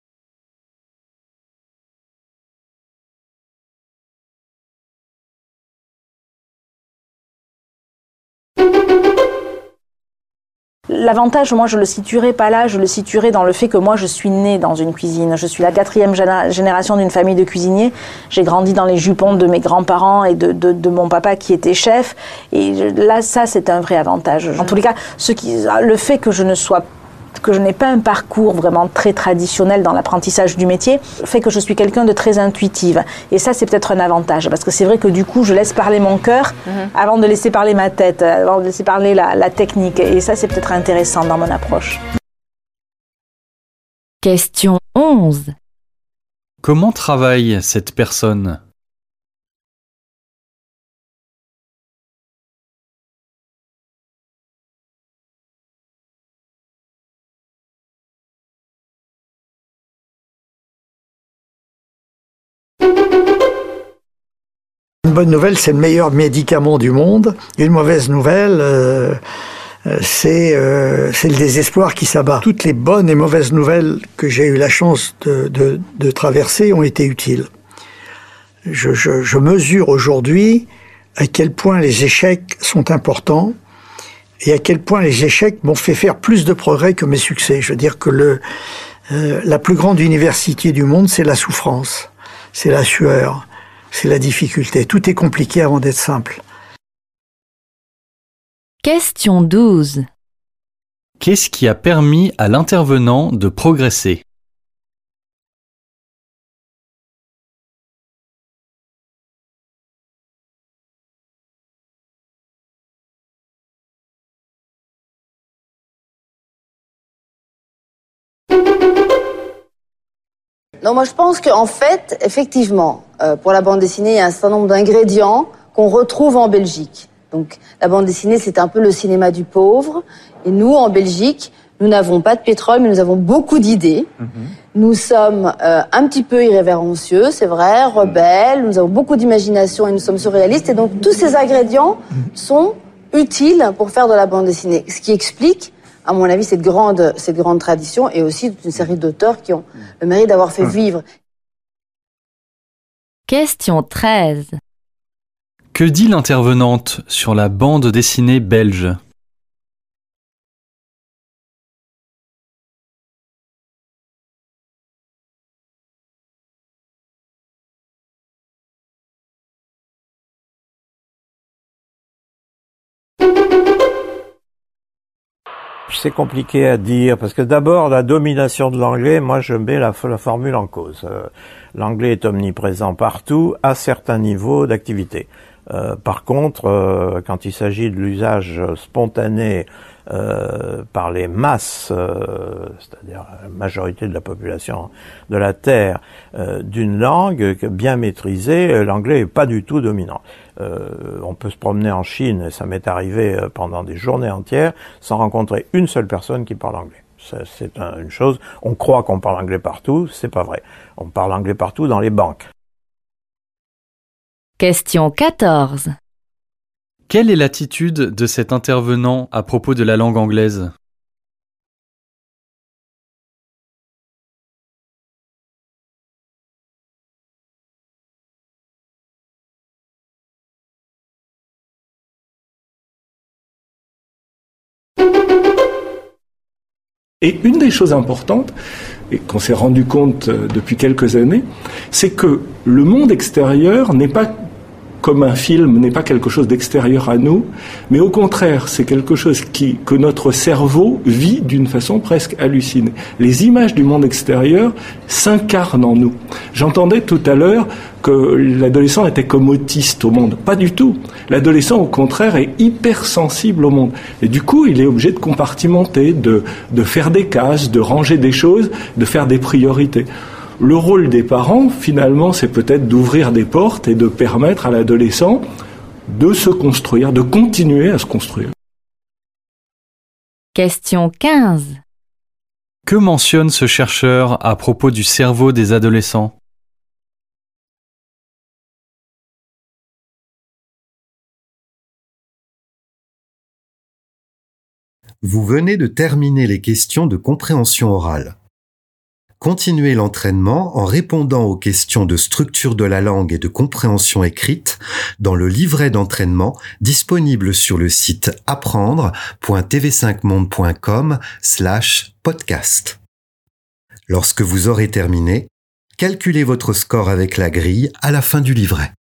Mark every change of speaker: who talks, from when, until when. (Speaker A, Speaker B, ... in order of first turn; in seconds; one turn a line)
Speaker A: 10.9-26.8
Speaker A: 27.4-42.0
Speaker B: 44.2-45.5
Speaker C: 46.6-48.6
Speaker D: 65.0-69.2
Speaker D: 69.9-77.5
Speaker D: 78.7-80.7
Speaker D: 81.2-83.5
Speaker D: 84.4-88.4
Speaker D: 89.1-96.4
Speaker B: 98.8-100.0
Speaker C: 101.2-104.2
Speaker E: 120.8-134.1
Speaker E: 134.7-151.0
Speaker B: 153.3-154.6
Speaker C: 155.7-159.0
Speaker F: 175.9-212.4
Speaker B: 214.6-215.9
Speaker C: 217.1-220.7
Speaker G: 237.2-238.5
Speaker G: 239.1-244.3
Speaker G: 245.0-270.1
Speaker G: 270.6-275.4
Speaker G: 276.1-278.5
Speaker B: 280.5-281.8
Speaker C: 282.9-286.4
Speaker H: 295.2-298.4
Speaker H: 299.4-313.0
Speaker H: 314.1-318.9